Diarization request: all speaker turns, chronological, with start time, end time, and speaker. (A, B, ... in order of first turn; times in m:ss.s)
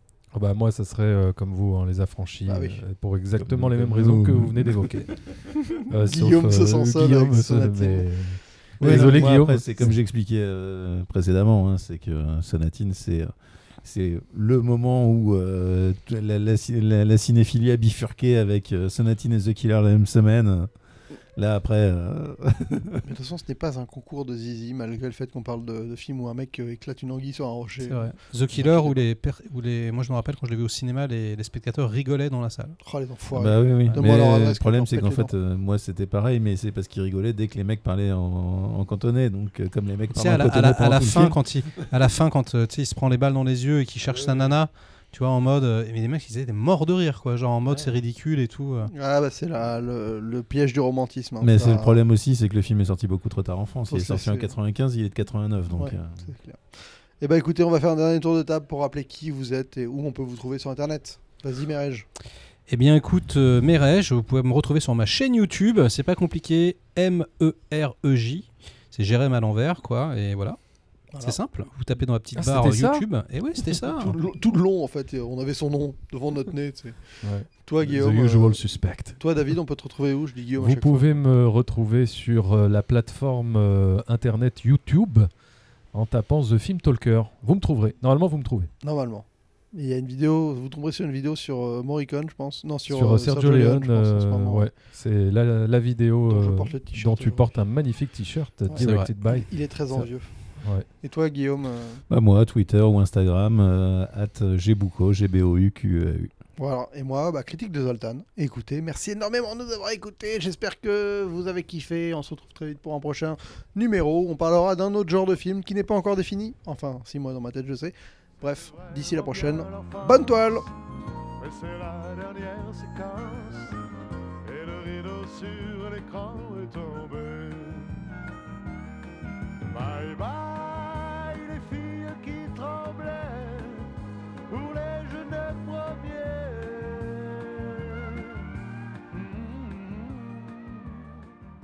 0:00.3-0:10.0 A
0:02.5-0:02.8 B
0:03.4-0:04.9 C
0:06.0-0:08.1 B
0:08.8-0:20.7 C
0:08.8-0:09.2 B
0:21.3-0:23.0 C
0:23.0-0:29.0 B
0:27.8-0:32.8 D
0:32.8-0:35.3 B
0:33.3-0:41.5 C
0:40.1-0:48.9 D
0:44.0-0:44.5 C
0:48.9-0:52.0 B
0:51.4-0:56.3 C
0:53.9-0:54.5 B
0:55.7-0:56.6 B
0:57.2-1:02.1 B
1:02.7-1:10.6 D
1:11.1-1:11.4 B
1:11.2-1:14.2 D
1:12.4-1:13.0 A
1:14.0-1:18.6 B
1:17.2-1:19.2 A
1:19.2-1:21.2 B
1:20.6-1:25.3 A
1:25.9-1:28.7 A
1:28.8-1:34.7 B
1:32.9-1:40.8 A
1:36.3-1:37.5 B
1:38.7-1:40.3 B
1:38.8-1:39.1 D
1:40.9-1:42.0 B
1:42.1-1:46.3 C
1:46.6-2:00.6 B
1:58.6-2:00.4 E
2:01.4-2:03.8 E
2:04.4-2:07.9 E
2:09.7-2:13.9 E
2:14.5-2:18.4 E
2:19.1-2:21.1 E